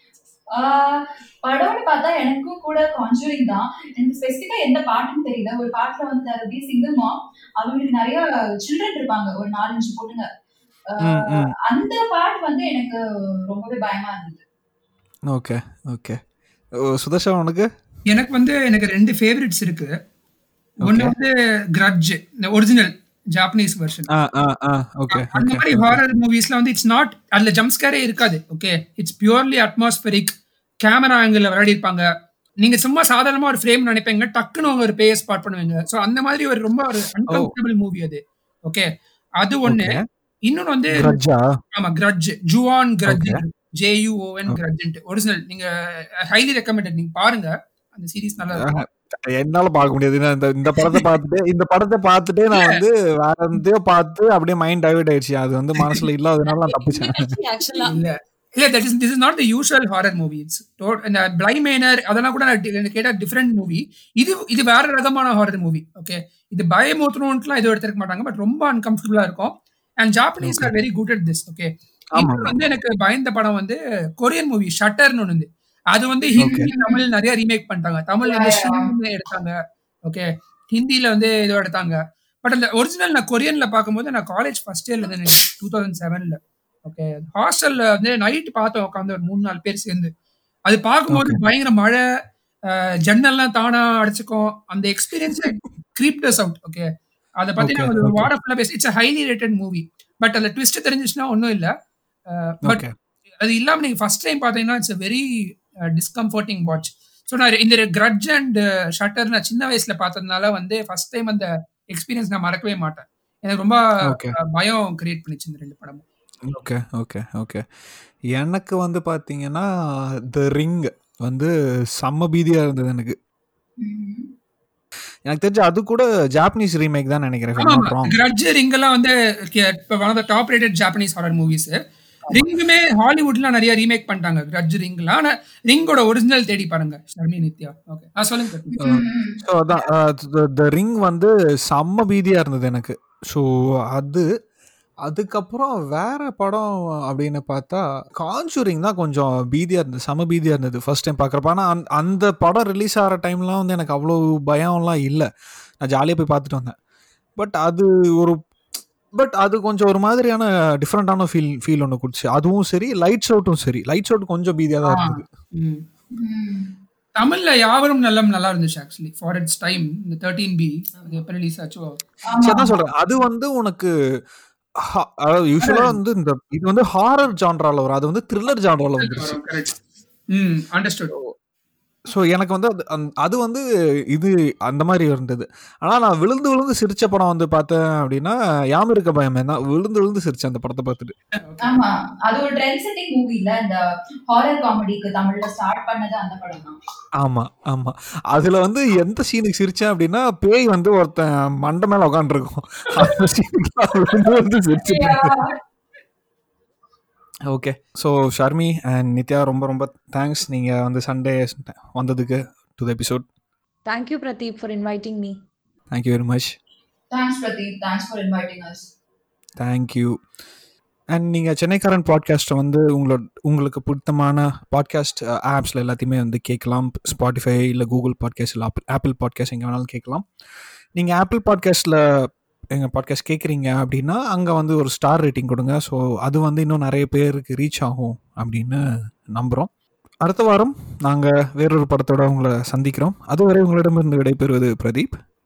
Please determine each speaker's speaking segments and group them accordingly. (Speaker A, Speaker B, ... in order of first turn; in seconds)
Speaker A: 0.6-10.3, 10.9-14.4, 76.8-77.0, 78.2-78.9, 123.8-124.3, 138.8-139.4, 166.1-166.7, 172.3-172.8, 191.6-196.8, 202.9-203.2, 204.8-205.6, 217.1-218.9
Speaker B: 11.0-11.5, 15.3-16.2, 16.8-17.7, 20.8-21.1, 24.1-26.0, 37.3-37.5, 39.7-40.0, 40.9-41.5, 43.1-43.4, 48.5-57.2, 70.4-70.7, 72.2-72.7, 76.4-76.7, 91.1-91.4, 97.6-98.3, 102.6-102.9, 114.0-114.3, 116.5-117.6, 118.3-119.7, 120.3-123.2, 125.3-128.2, 138.8-144.3, 145.1-155.3, 155.8-156.8, 157.4-158.4, 159.2-165.3, 172.4-173.9, 174.8-179.4, 182.1-191.1, 197.2-205.4, 207.5-213.2, 215.9-216.6, 219.6-220.2, 221.1-230.2, 231.0-232.0, 232.7-238.8, 239.3-239.7, 240.2-245.2
Speaker C: 18.1-19.9, 20.8-24.1, 25.1-32.0, 32.6-38.9, 39.4-41.1, 41.8-48.8, 52.5-52.8, 57.9-79.5, 80.1-90.1, 90.7-92.0, 92.7-96.8, 97.4-101.7, 102.3-102.8, 103.4-105.3, 105.9-116.0, 127.6-131.8, 132.3-138.8, 164.8-165.8, 167.2-172.0, 175.6-176.0, 179.0-179.8, 180.3-181.1, 191.4-191.8
Speaker D: 56.5-57.9, 213.9-215.4